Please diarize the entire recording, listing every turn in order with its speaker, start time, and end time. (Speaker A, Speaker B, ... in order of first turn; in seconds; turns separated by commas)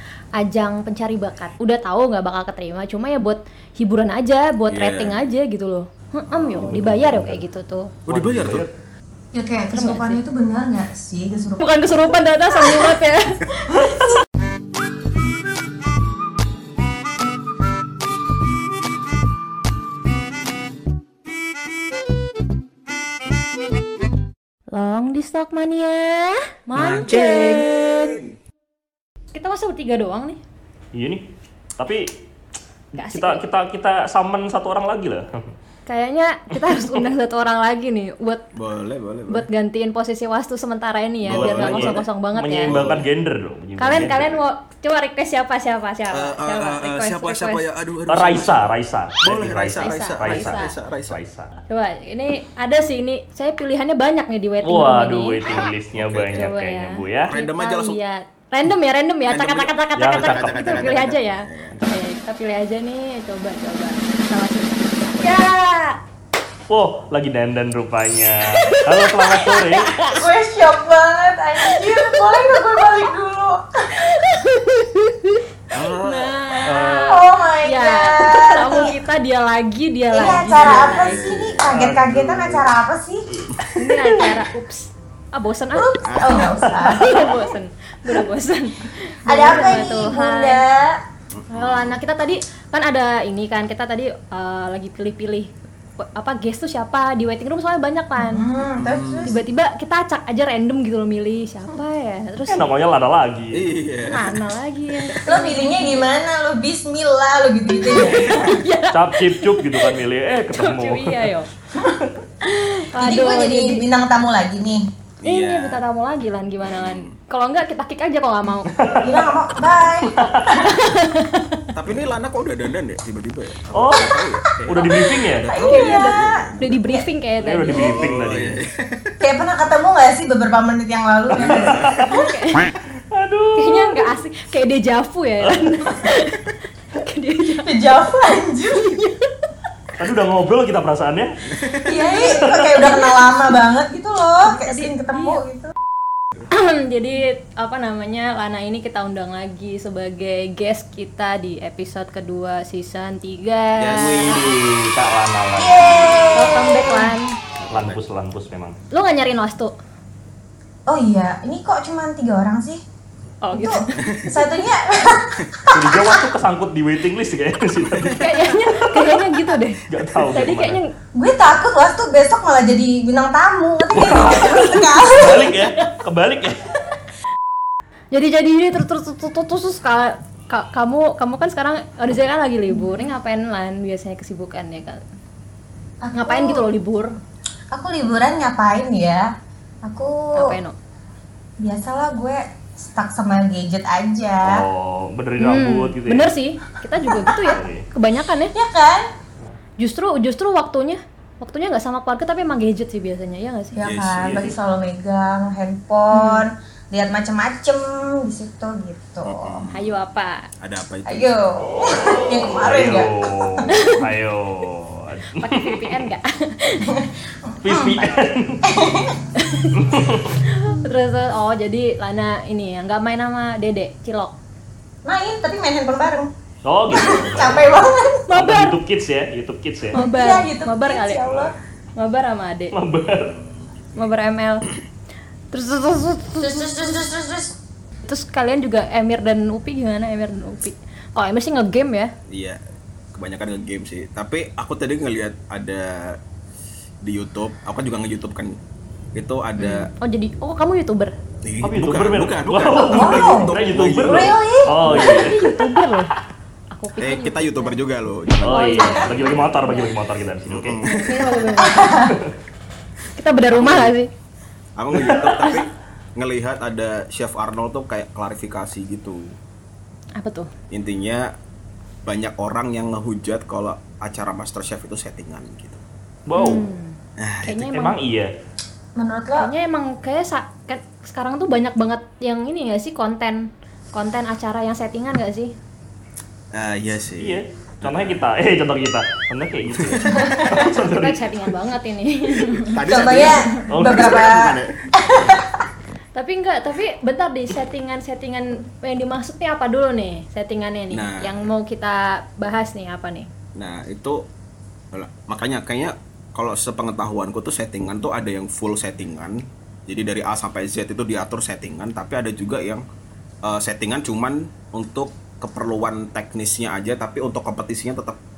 Speaker A: 0.4-7.9, Speaker B: 4.7-5.2, Speaker C: 6.5-7.4, Speaker B: 8.1-8.7, Speaker C: 8.1-8.7, Speaker D: 9.3-11.7, Speaker A: 9.7-10.2, Speaker A: 11.6-13.8, Speaker A: 24.7-28.1, Speaker B: 26.8-28.3, Speaker A: 29.3-30.4, Speaker C: 30.9-31.2, Speaker C: 31.8-32.1, Speaker A: 33.0-33.4, Speaker C: 33.0-35.3, Speaker A: 35.9-38.4, Speaker C: 36.7-37.0, Speaker B: 38.6-39.5, Speaker A: 39.3-42.7, Speaker B: 41.2-42.0, Speaker C: 41.3-44.4, Speaker B: 42.6-43.1, Speaker A: 43.8-47.6, Speaker B: 44.0-44.3, Speaker B: 46.1-48.6, Speaker C: 48.1-51.6, Speaker B: 49.2-51.2, Speaker A: 49.8-50.7, Speaker A: 51.7-55.7, Speaker C: 54.6-57.3, Speaker B: 55.5-56.5, Speaker A: 56.3-66.0, Speaker B: 57.2-58.0, Speaker B: 59.3-61.8, Speaker C: 60.0-61.0, Speaker C: 61.7-62.0, Speaker C: 66.7-70.0, Speaker A: 68.7-70.2, Speaker D: 70.1-74.1, Speaker A: 71.6-72.6, Speaker A: 74.0-75.5, Speaker B: 75.7-76.3, Speaker A: 76.0-81.2, Speaker C: 76.7-77.2, Speaker D: 76.8-79.0, Speaker D: 80.1-83.2, Speaker B: 80.6-81.8, Speaker C: 81.7-82.7, Speaker C: 83.3-84.4, Speaker A: 83.8-85.9, Speaker D: 85.7-87.3, Speaker B: 86.0-86.6, Speaker C: 86.7-87.0, Speaker A: 86.7-90.6, Speaker D: 89.3-91.0, Speaker B: 89.4-89.9, Speaker B: 91.3-92.0, Speaker A: 91.5-98.5, Speaker D: 98.2-99.4, Speaker B: 98.7-99.3, Speaker A: 99.2-102.7, Speaker C: 102.5-103.7, Speaker B: 103.5-104.4, Speaker A: 104.1-106.1, Speaker D: 105.2-108.4, Speaker A: 107.7-111.5, Speaker C: 108.2-111.3, Speaker A: 112.4-113.8, Speaker D: 113.0-114.9, Speaker B: 115.2-115.8, Speaker A: 115.2-118.8, Speaker B: 116.6-117.2, Speaker C: 118.7-119.2, Speaker D: 119.0-120.6, Speaker C: 120.1-120.6, Speaker A: 120.2-121.7, Speaker B: 121.7-126.8, Speaker C: 123.7-125.5, Speaker D: 124.7-127.1, Speaker A: 125.5-128.1, Speaker C: 127.4-128.6, Speaker B: 127.7-129.2, Speaker D: 129.2-131.9, Speaker B: 131.4-132.1, Speaker C: 131.6-132.1, Speaker A: 132.1-132.7, Speaker C: 133.1-134.0, Speaker A: 133.6-137.7, Speaker C: 135.4-135.9, Speaker D: 137.6-139.0, Speaker A: 138.8-139.3, Speaker C: 140.0-141.3, Speaker B: 141.6-141.8, Speaker D: 141.8-145.7, Speaker A: 141.9-143.3, Speaker A: 144.4-145.4, Speaker A: 146.5-154.4, Speaker B: 153.8-154.6, Speaker C: 154.1-156.3, Speaker D: 155.6-157.1, Speaker B: 155.8-156.4, Speaker A: 156.3-157.4, Speaker B: 157.6-158.0, Speaker C: 157.7-158.8, Speaker A: 158.9-159.7, Speaker D: 160.9-162.8, Speaker A: 163.4-163.9, Speaker D: 163.5-166.2, Speaker B: 164.0-164.3, Speaker C: 165.7-169.2, Speaker B: 167.8-168.2, Speaker A: 168.2-170.9, Speaker C: 169.9-170.8, Speaker B: 170.2-170.5, Speaker D: 171.2-175.5, Speaker C: 173.9-176.7, Speaker A: 174.3-175.9, Speaker A: 178.1-185.0, Speaker D: 186.0-186.7, Speaker A: 186.2-187.2, Speaker D: 187.7-189.3, Speaker D: 189.8-190.6, Speaker A: 190.3-190.8, Speaker D: 191.6-194.6, Speaker C: 194.4-196.3, Speaker A: 195.4-198.5, Speaker C: 197.3-197.9, Speaker D: 198.5-199.1, Speaker A: 199.8-203.8, Speaker D: 203.8-209.7, Speaker B: 203.8-204.6, Speaker A: 206.1-206.4, Speaker B: 209.2-209.9, Speaker A: 209.7-210.4, Speaker B: 210.6-211.3, Speaker D: 211.1-213.1, Speaker C: 212.5-216.0, Speaker A: 213.7-214.1, Speaker A: 215.4-216.9, Speaker D: 216.8-218.1, Speaker C: 217.6-218.6, Speaker D: 218.6-219.3, Speaker A: 219.4-219.8, Speaker C: 219.8-220.4, Speaker A: 220.4-224.3, Speaker D: 225.1-226.3, Speaker C: 226.6-230.0, Speaker D: 226.9-228.3, Speaker A: 228.3-228.8, Speaker D: 229.9-231.5, Speaker A: 229.9-232.7, Speaker C: 232.7-233.3, Speaker A: 233.9-234.7, Speaker A: 235.5-236.7, Speaker D: 236.4-237.6, Speaker A: 238.1-242.1, Speaker B: 242.3-242.6, Speaker B: 243.1-246.2, Speaker B: 247.0-248.6, Speaker B: 249.2-249.9, Speaker A: 249.6-251.1, Speaker B: 251.4-254.4, Speaker C: 251.6-255.6, Speaker D: 252.9-255.2, Speaker A: 254.8-256.1, Speaker A: 256.7-257.8, Speaker B: 257.0-259.4, Speaker C: 258.4-260.8, Speaker A: 258.4-260.0, Speaker B: 260.4-261.4, Speaker A: 260.8-262.1, Speaker D: 261.6-262.2, Speaker A: 263.2-264.1, Speaker B: 263.5-263.9, Speaker B: 264.8-269.4, Speaker C: 264.9-265.6, Speaker A: 270.2-270.5, Speaker B: 270.7-271.3, Speaker B: 272.1-275.8, Speaker C: 276.3-276.6, Speaker A: 276.4-278.0, Speaker B: 277.2-277.6, Speaker C: 277.5-278.3, Speaker D: 279.0-279.5, Speaker A: 279.4-285.5, Speaker B: 286.5-288.2, Speaker C: 287.2-291.2, Speaker B: 289.7-290.7, Speaker D: 290.2-290.6, Speaker A: 290.5-293.3, Speaker B: 292.6-295.4, Speaker D: 292.9-295.6, Speaker C: 293.7-294.4, Speaker A: 296.2-303.3, Speaker B: 300.9-301.4, Speaker B: 303.6-304.3, Speaker B: 304.9-312.8, Speaker B: 313.4-318.2